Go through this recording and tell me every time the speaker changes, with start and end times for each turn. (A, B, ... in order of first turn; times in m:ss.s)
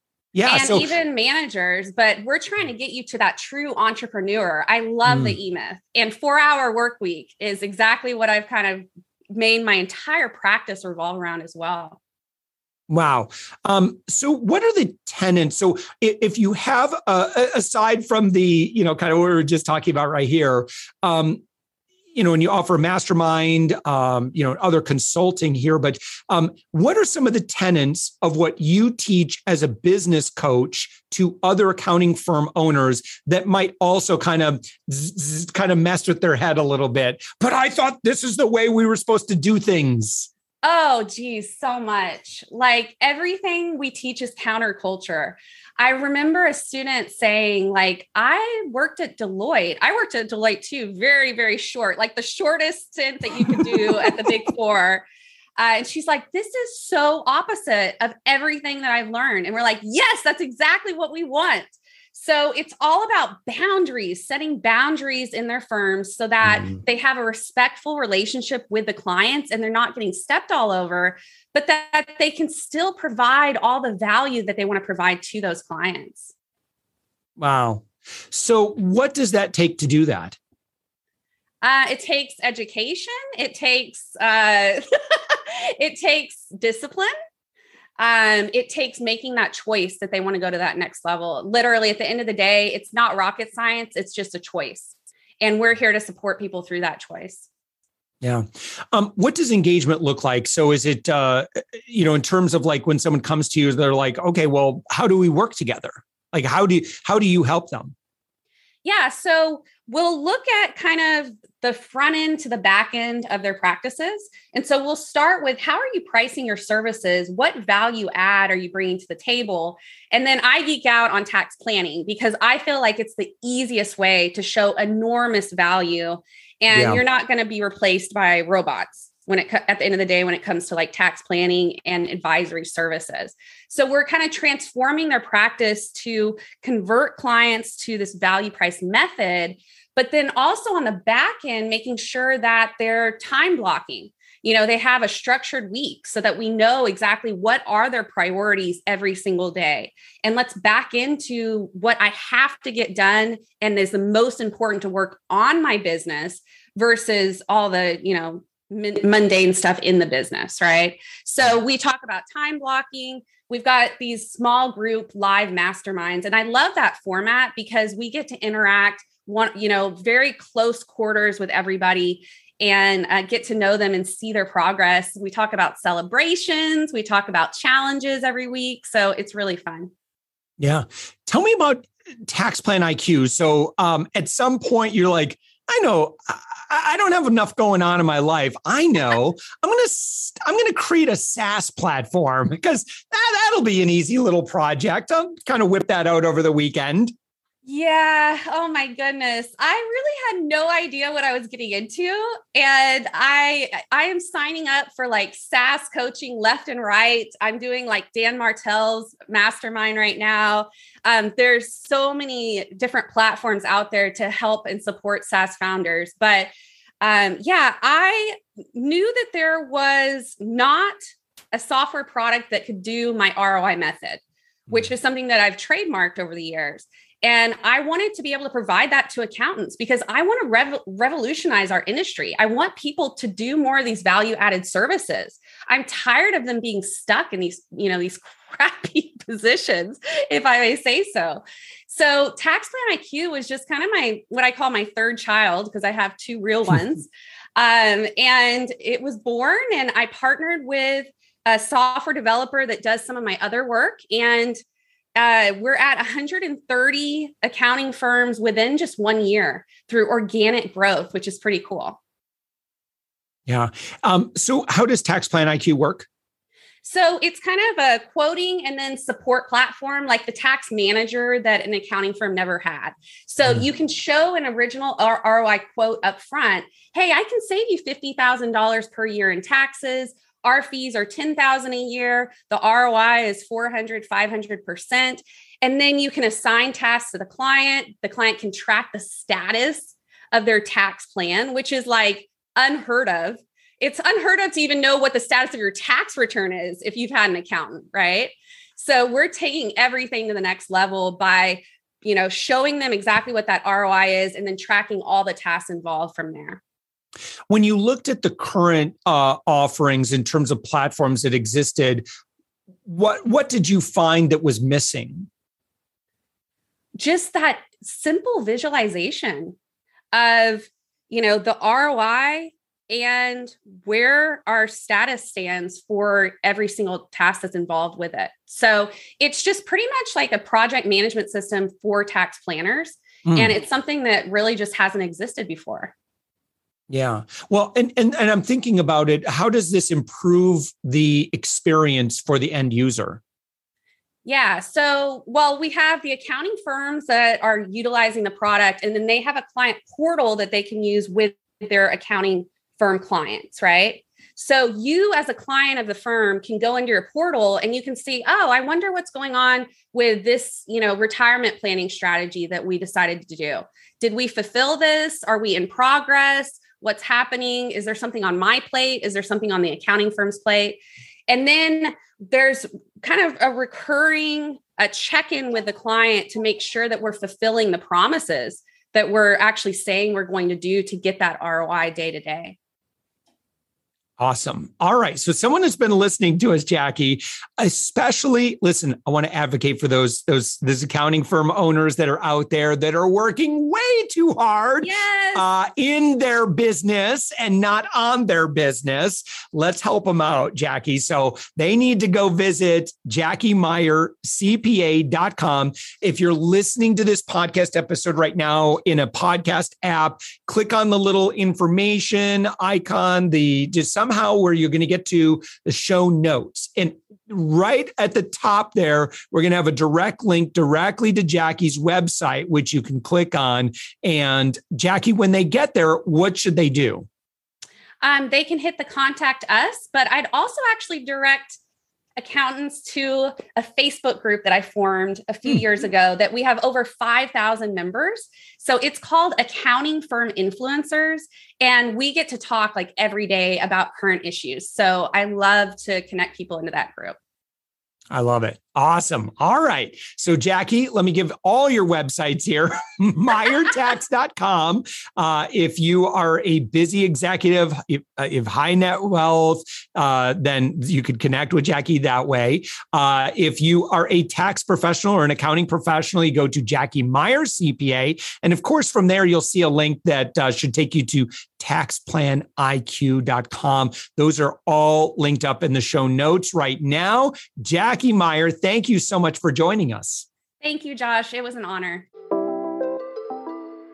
0:00.3-0:00.9 A
0:00.4-0:12.0 B
0:05.0-0:05.4 A
0:12.9-0:21.4 A
0:22.1-0:40.3 A
0:40.6-0:55.0 B
0:53.4-0:54.3 A
0:55.6-1:16.3 B
1:17.4-1:20.4 A
1:21.6-1:27.1 B
1:28.0-1:37.5 B
1:38.2-1:48.0 A
1:48.8-2:59.9 B
2:06.7-2:07.0 A
3:00.6-3:17.1 A
3:17.6-3:36.5 B
3:37.0-3:41.0 B
3:41.5-4:14.6 B
4:15.2-4:22.0 B
4:23.5-4:26.1 A
4:26.8-5:06.6 B
5:07.5-5:12.0 A
5:12.9-5:15.3 A
5:17.0-5:19.6 B
5:20.1-5:35.9 B
5:33.3-5:33.6 A
5:36.9-5:43.2 A
5:44.2-6:22.6 B
6:24.2-7:07.1 A
6:34.8-6:35.4 B
7:08.0-7:11.6 B
7:12.2-7:27.2 B
7:28.1-8:00.3 A
8:00.6-8:02.1 B